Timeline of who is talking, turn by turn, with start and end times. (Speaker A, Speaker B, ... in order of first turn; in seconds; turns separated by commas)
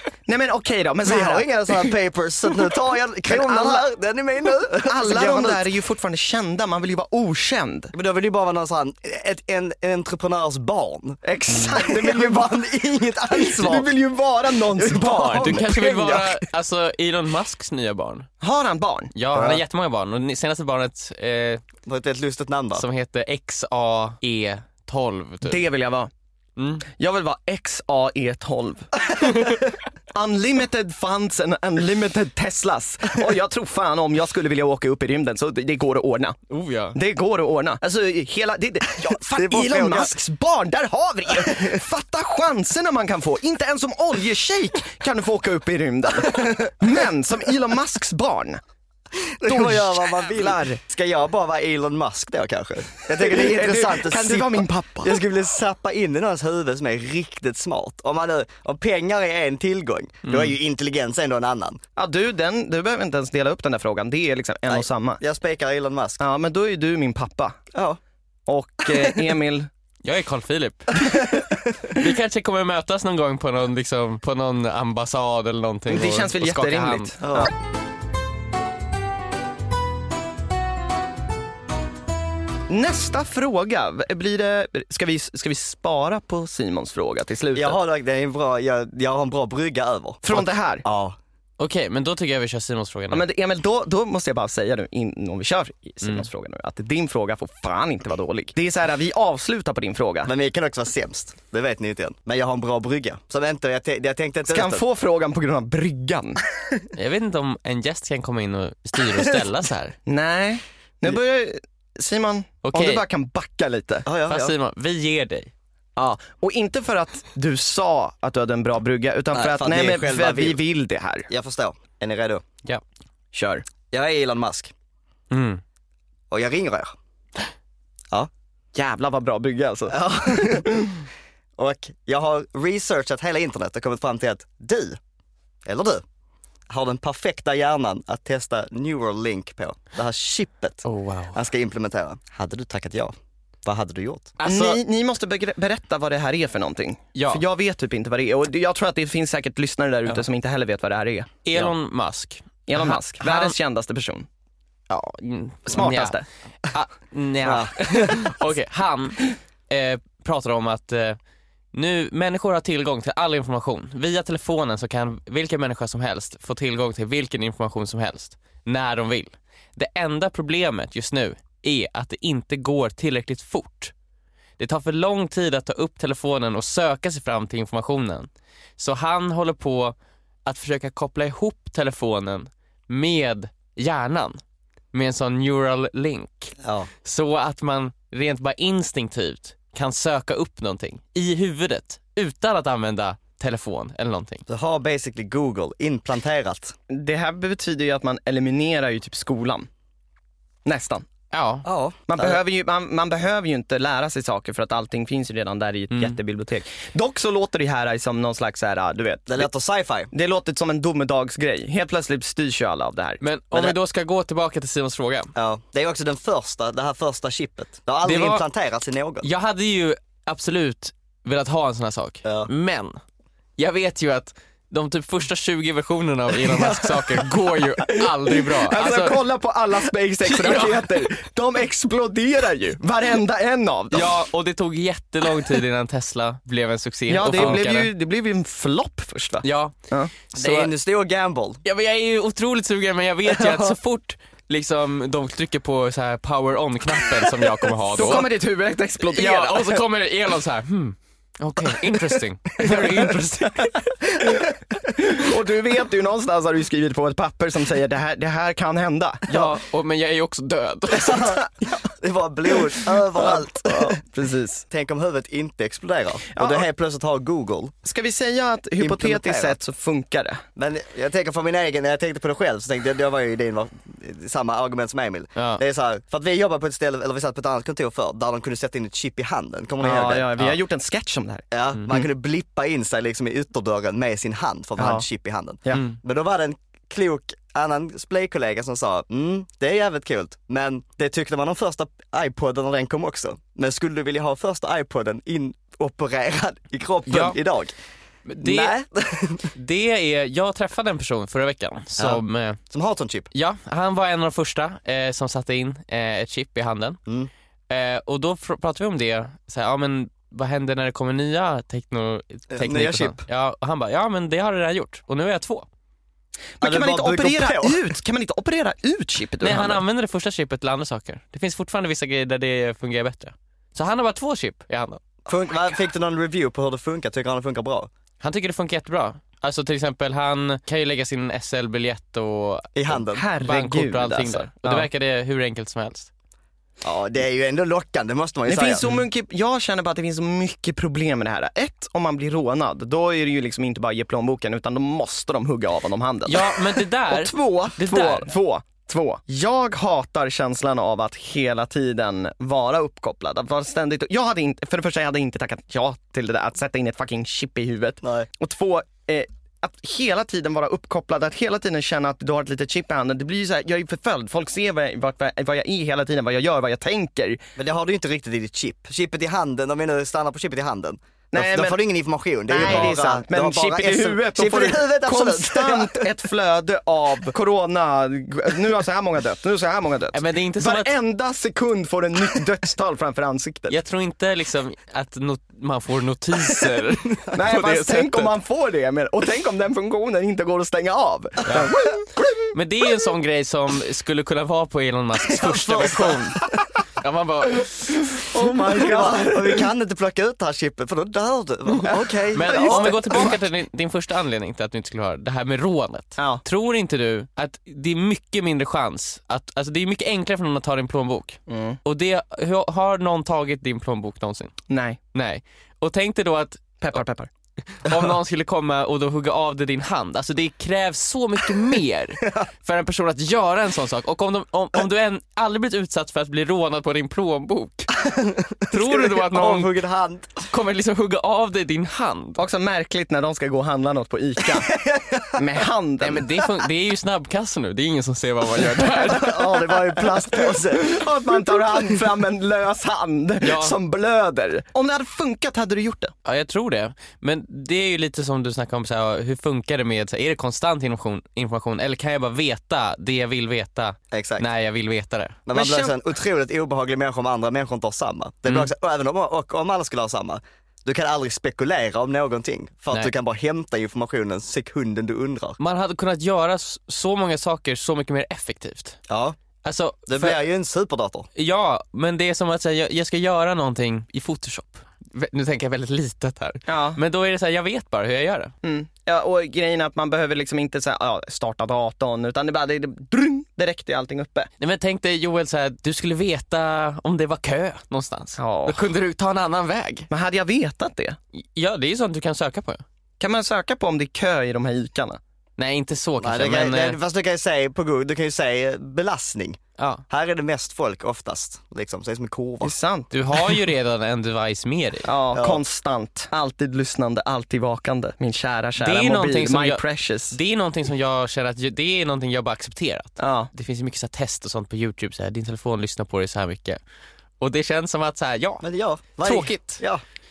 Speaker A: 0.3-1.5, Speaker B: 1.0-5.6, Speaker A: 3.3-3.9, Speaker A: 4.7-7.9, Speaker B: 7.9-13.9, Speaker A: 11.2-12.6, Speaker C: 11.5-11.7, Speaker A: 13.3-15.7, Speaker B: 14.6-16.4, Speaker C: 15.1-18.3, Speaker A: 18.4-19.1, Speaker C: 19.1-21.6, Speaker B: 19.3-19.6, Speaker B: 21.9-22.8, Speaker C: 22.8-25.6, Speaker A: 25.4-26.1, Speaker C: 26.6-26.9, Speaker A: 27.0-29.5, Speaker A: 30.1-36.4, Speaker C: 36.5-37.0, Speaker A: 36.9-48.6, Speaker B: 39.0-40.1, Speaker B: 46.2-46.7, Speaker B: 49.4-61.8, Speaker A: 49.4-50.8, Speaker A: 53.1-55.2, Speaker C: 60.2-60.5, Speaker A: 62.0-65.2, Speaker B: 64.7-66.2, Speaker A: 66.2-67.6, Speaker B: 67.7-68.0, Speaker A: 68.5-69.7, Speaker B: 68.9-69.2, Speaker C: 70.0-70.9, Speaker C: 71.9-77.2, Speaker A: 75.9-77.5, Speaker B: 77.2-77.5, Speaker A: 82.7-87.8, Speaker B: 87.5-91.2, Speaker A: 90.2-90.8, Speaker C: 91.6-93.2, Speaker A: 93.1-100.3, Speaker B: 100.2-104.8, Speaker A: 104.5-106.4, Speaker C: 106.9-110.0, Speaker A: 110.0-114.0, Speaker C: 112.6-113.0, Speaker B: 114.0-114.5, Speaker C: 114.3-115.5, Speaker A: 116.0-121.3, Speaker B: 119.3-120.6, Speaker B: 121.3-122.4, Speaker A: 123.3-123.6, Speaker B: 123.9-124.7, Speaker C: 125.3-125.6, Speaker B: 126.3-126.9, Speaker A: 128.7-131.0, Speaker B: 129.9-130.8, Speaker B: 131.6-135.0, Speaker B: 135.7-136.0, Speaker B: 136.7-143.1, Speaker C: 140.8-141.4, Speaker B: 143.6-144.3, Speaker C: 144.4-144.8, Speaker A: 144.4-151.7, Speaker C: 147.1-147.4, Speaker C: 151.4-153.6, Speaker A: 152.7-154.2, Speaker C: 154.9-161.2, Speaker A: 155.7-156.2, Speaker B: 157.4-158.3, Speaker C: 161.7-173.9, Speaker C: 174.6-184.4, Speaker C: 184.9-194.4, Speaker B: 186.6-186.9, Speaker B: 194.5-196.7, Speaker A: 196.9-199.7, Speaker A: 200.6-201.1, Speaker C: 201.3-201.6, Speaker B: 201.6-202.4, Speaker A: 202.1-209.5, Speaker C: 205.9-206.2, Speaker B: 209.3-210.1, Speaker A: 210.1-213.2, Speaker C: 213.2-215.3, Speaker B: 215.3-219.3, Speaker C: 218.0-218.4, Speaker C: 219.2-223.0, Speaker B: 222.2-222.5, Speaker C: 223.6-229.2, Speaker B: 226.4-227.3, Speaker A: 228.0-234.2, Speaker C: 230.2-231.1, Speaker C: 233.9-237.9, Speaker A: 237.1-240.1, Speaker C: 239.4-239.8, Speaker C: 240.3-240.7, Speaker B: 240.3-241.6, Speaker C: 241.6-248.3, Speaker B: 243.3-243.7, Speaker A: 247.9-249.8, Speaker C: 249.0-253.8, Speaker B: 254.1-254.6, Speaker A: 255.0-259.3, Speaker C: 259.3-261.4, Speaker B: 260.9-264.0, Speaker A: 263.1-264.6, Speaker B: 264.7-267.7, Speaker A: 266.3-266.7, Speaker A: 267.8-270.4, Speaker B: 268.8-269.6, Speaker B: 270.6-280.3, Speaker C: 275.4-275.6, Speaker A: 279.8-281.4, Speaker B: 281.5-297.7, Speaker C: 281.8-282.0, Speaker A: 284.8-285.0, Speaker C: 297.1-297.4, Speaker C: 298.3-298.7, Speaker B: 298.4-299.5, Speaker C: 299.5-302.6, Speaker B: 302.0-303.3, Speaker C: 303.3-307.0, Speaker C: 307.7-315.7, Speaker B: 312.5-313.2, Speaker A: 316.6-319.8, Speaker B: 316.6-317.9, Speaker C: 319.4-325.0, Speaker B: 325.3-327.9, Speaker C: 328.2-336.1, Speaker B: 332.8-333.3, Speaker A: 333.1-334.9, Speaker B: 336.8-338.8, Speaker A: 338.5-367.4, Speaker C: 346.2-348.3, Speaker B: 358.0-358.3, Speaker B: 367.6-376.1, Speaker A: 371.3-371.8, Speaker A: 372.5-383.8, Speaker C: 372.6-372.9, Speaker C: 380.1-380.9, Speaker C: 383.7-388.3, Speaker A: 387.3-392.5, Speaker C: 391.4-391.7, Speaker C: 392.5-398.1, Speaker B: 395.3-396.5, Speaker A: 398.1-399.7, Speaker B: 398.3-403.4, Speaker C: 402.3-414.5, Speaker A: 402.4-403.4, Speaker A: 411.5-411.8, Speaker A: 414.7-415.0, Speaker C: 415.1-416.8, Speaker A: 416.8-417.3, Speaker C: 417.7-427.9, Speaker B: 428.0-430.5, Speaker C: 428.7-429.7, Speaker C: 430.5-432.4, Speaker A: 432.4-434.7, Speaker B: 434.4-435.4, Speaker A: 435.3-436.3, Speaker C: 436.0-439.4, Speaker B: 439.1-442.0, Speaker A: 439.1-446.1, Speaker C: 443.4-443.8, Speaker C: 446.2-455.4, Speaker B: 454.1-454.4, Speaker B: 455.5-465.6, Speaker A: 455.5-455.9, Speaker C: 465.6-469.0, Speaker B: 469.1-469.4, Speaker C: 469.6-470.4, Speaker B: 470.1-471.3, Speaker C: 471.4-478.5, Speaker A: 476.7-477.0, Speaker A: 478.6-484.5, Speaker C: 484.6-490.1, Speaker A: 488.4-488.9, Speaker A: 490.1-491.2, Speaker C: 491.3-492.8, Speaker A: 493.2-495.2, Speaker C: 495.6-497.0, Speaker B: 496.2-499.6, Speaker C: 499.8-500.0, Speaker B: 500.1-502.7, Speaker A: 502.6-503.6, Speaker C: 503.1-505.1, Speaker A: 505.0-510.4, Speaker B: 505.3-505.6, Speaker C: 508.8-516.8, Speaker A: 513.2-513.5, Speaker C: 517.4-518.6, Speaker B: 518.6-520.0, Speaker C: 519.2-519.8